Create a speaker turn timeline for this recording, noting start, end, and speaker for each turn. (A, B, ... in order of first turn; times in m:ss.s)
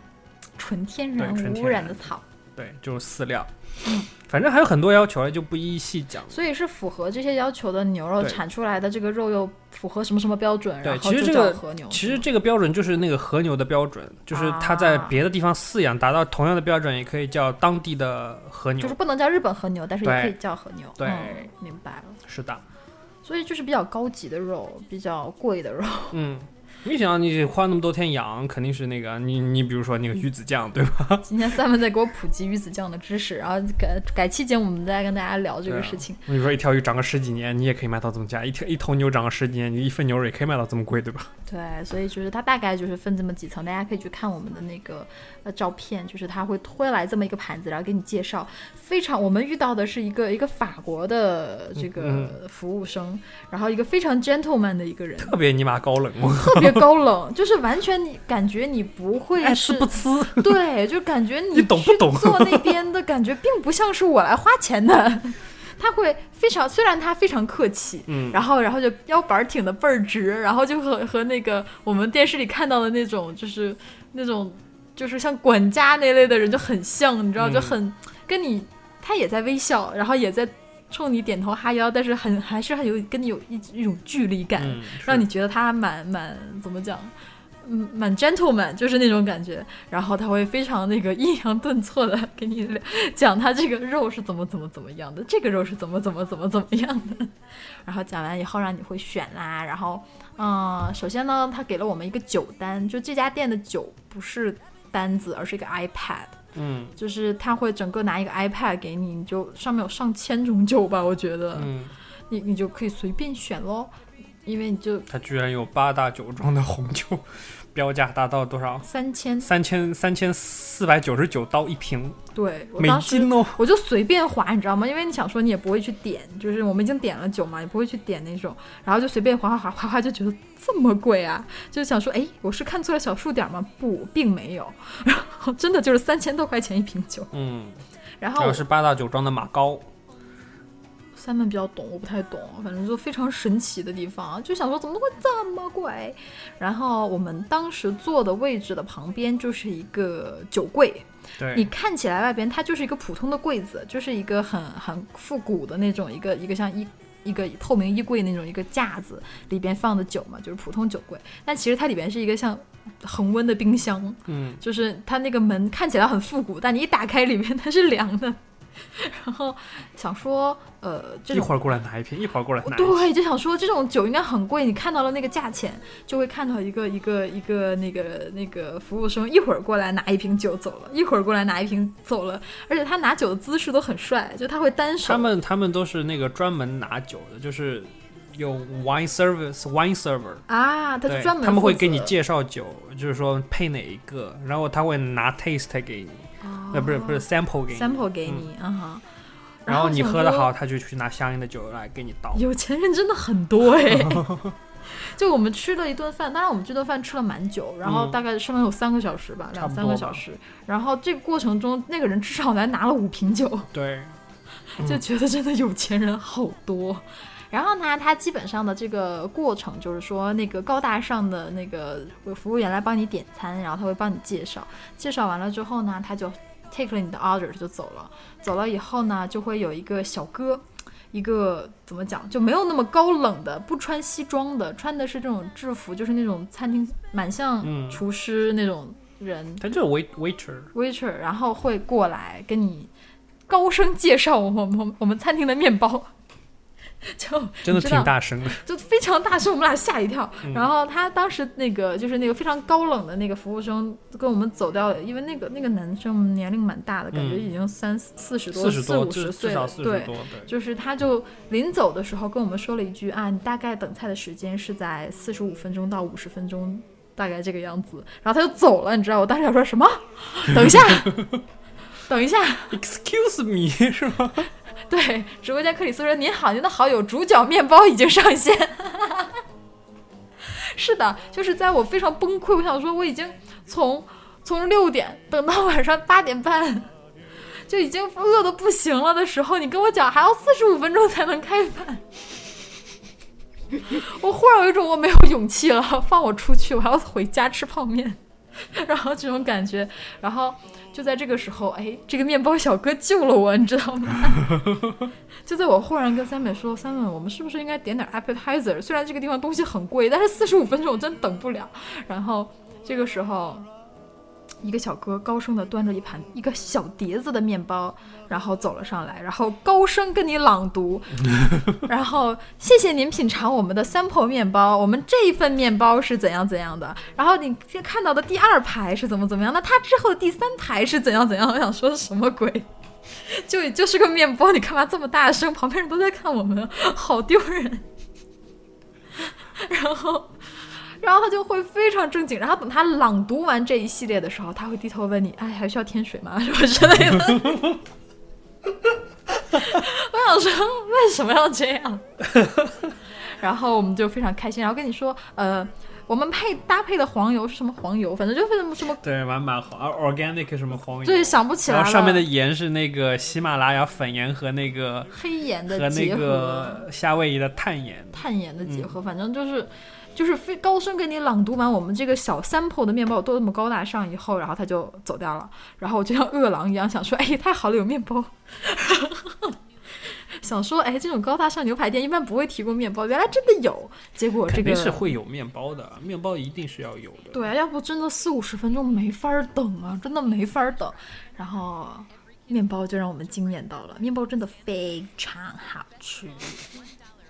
0:00.6-0:02.2 A
0:01.2-0:03.5 B
0:03.8-0:04.1 A
0:04.1-0:06.4 B
0:06.3-0:12.2 A
0:10.8-0:19.0 B
0:14.3-0:15.2 A
0:18.8-0:22.2 A
0:20.0-0:20.4 B
0:21.0-0:21.4 B
0:22.2-0:22.6 B
0:23.2-0:26.2 A
0:26.1-0:31.3 B
0:31.2-0:36.2 A
0:35.6-0:41.3 B
0:41.4-0:55.4 A
0:51.8-0:52.3 B
0:55.2-0:56.8 B
0:56.3-1:37.3 A
0:59.4-1:00.6 B
1:01.5-1:02.8 B
1:08.1-1:08.4 B
1:17.4-1:17.8 B
1:24.6-1:25.3 B
1:37.8-1:46.4 A
1:46.5-1:46.9 B
1:47.0-1:51.7 A
1:51.5-1:51.9 B
1:52.3-1:53.9 A
1:54.4-1:55.1 A
1:55.1-1:58.9 B
1:58.8-1:59.5 A
1:59.4-2:02.2 B
2:02.3-2:17.3 A
2:02.8-2:03.6 B
2:17.3-2:17.8 B
2:18.2-2:18.6 A
2:18.4-2:19.9 B
2:21.2-2:51.5 A
2:31.4-2:31.7 B
2:44.3-2:44.6 B
2:51.3-2:53.1 B
2:52.6-3:05.3 A
3:05.0-3:10.4 B
3:10.5-3:12.1 A
3:11.1-3:18.5 B
3:16.4-3:19.0 A
3:19.6-3:20.5 A
3:19.7-3:22.4 B
3:22.3-3:24.3 A
3:23.8-3:24.5 B
3:24.8-3:33.7 A
3:27.8-3:28.2 B
3:29.5-3:30.2 B
3:33.7-3:34.2 B
3:34.7-3:59.6 A
3:57.6-3:58.0 B
3:59.6-4:00.7 B
4:00.7-4:02.9 A
4:03.5-4:06.1 A
4:07.0-4:31.3 A
4:07.6-4:08.6 B
4:10.4-4:10.7 B
4:17.1-4:17.5 B
4:18.5-4:20.5 B
4:30.5-4:31.2 B
4:32.1-4:32.8 A
4:32.7-4:34.5 B
4:34.9-4:39.4 A
4:40.4-4:46.9 A
4:47.6-4:52.0 A
4:53.8-5:04.7 A
5:05.4-5:13.7 A
5:14.6-5:32.7 A
5:33.2-5:37.8 A
5:39.2-5:40.4 A
5:41.0-5:47.8 A
5:49.5-5:52.0 A
5:52.3-5:52.7 B
5:53.2-5:59.0 A
5:59.0-6:08.9 B
6:01.0-6:02.3 A
6:05.1-6:06.9 A
6:08.1-6:25.1 A
6:24.4-6:27.4 B
6:27.3-6:36.6 A